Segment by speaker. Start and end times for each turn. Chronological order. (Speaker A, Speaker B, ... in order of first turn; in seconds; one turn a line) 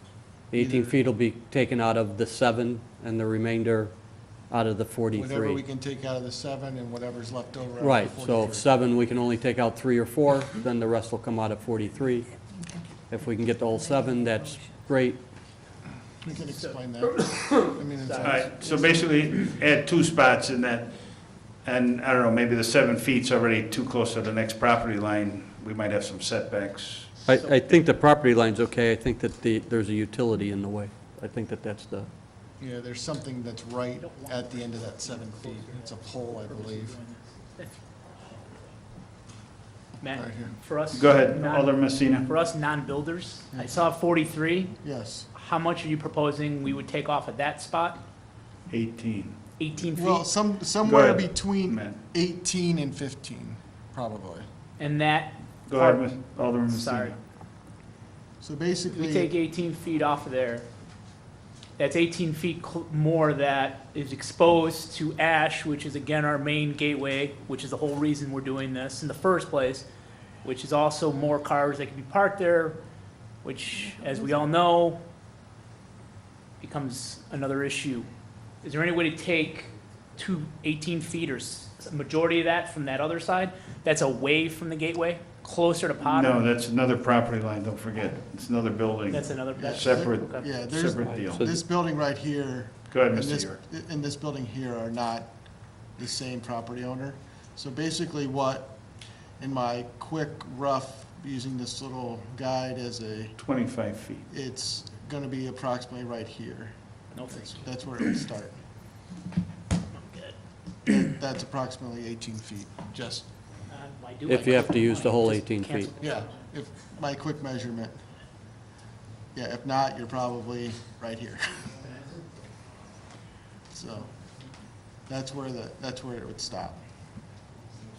Speaker A: 0.5-5.6
Speaker B: 0.6-0.9
Speaker B: 5.1-8.7
Speaker A: 7.8-12.3
Speaker A: 13.1-15.2
Speaker B: 16.2-18.9
Speaker C: 16.3-18.9
Speaker D: 18.2-27.1
Speaker C: 27.2-27.6
Speaker A: 27.2-32.1
Speaker B: 32.6-37.0
Speaker C: 34.0-38.6
Speaker C: 40.0-44.8
Speaker B: 40.1-40.6
Speaker D: 40.9-42.3
Speaker B: 43.5-43.8
Speaker B: 44.8-45.3
Speaker C: 45.3-48.0
Speaker D: 48.7-49.4
Speaker C: 49.6-50.3
Speaker B: 50.0-54.5
Speaker D: 50.8-52.0
Speaker C: 54.8-57.2
Speaker D: 55.7-57.2
Speaker B: 58.4-59.3
Speaker C: 58.9-60.7
Speaker C: 61.8-69.9
Speaker C: 70.4-72.8
Speaker C: 73.4-75.0
Speaker C: 76.6-78.1
Speaker C: 78.6-86.4
Speaker D: 86.0-91.4
Speaker C: 89.1-90.6
Speaker B: 89.5-95.3
Speaker A: 91.3-91.6
Speaker D: 92.9-93.6
Speaker B: 96.0-98.8
Speaker B: 99.4-103.4
Speaker D: 103.4-104.3
Speaker B: 104.3-108.6
Speaker C: 107.2-107.7
Speaker C: 110.0-110.3
Speaker B: 110.9-113.3
Speaker C: 113.7-116.5
Speaker A: 114.3-115.9
Speaker B: 116.0-118.0
Speaker B: 119.3-121.7
Speaker B: 123.7-124.1
Speaker B: 125.1-126.8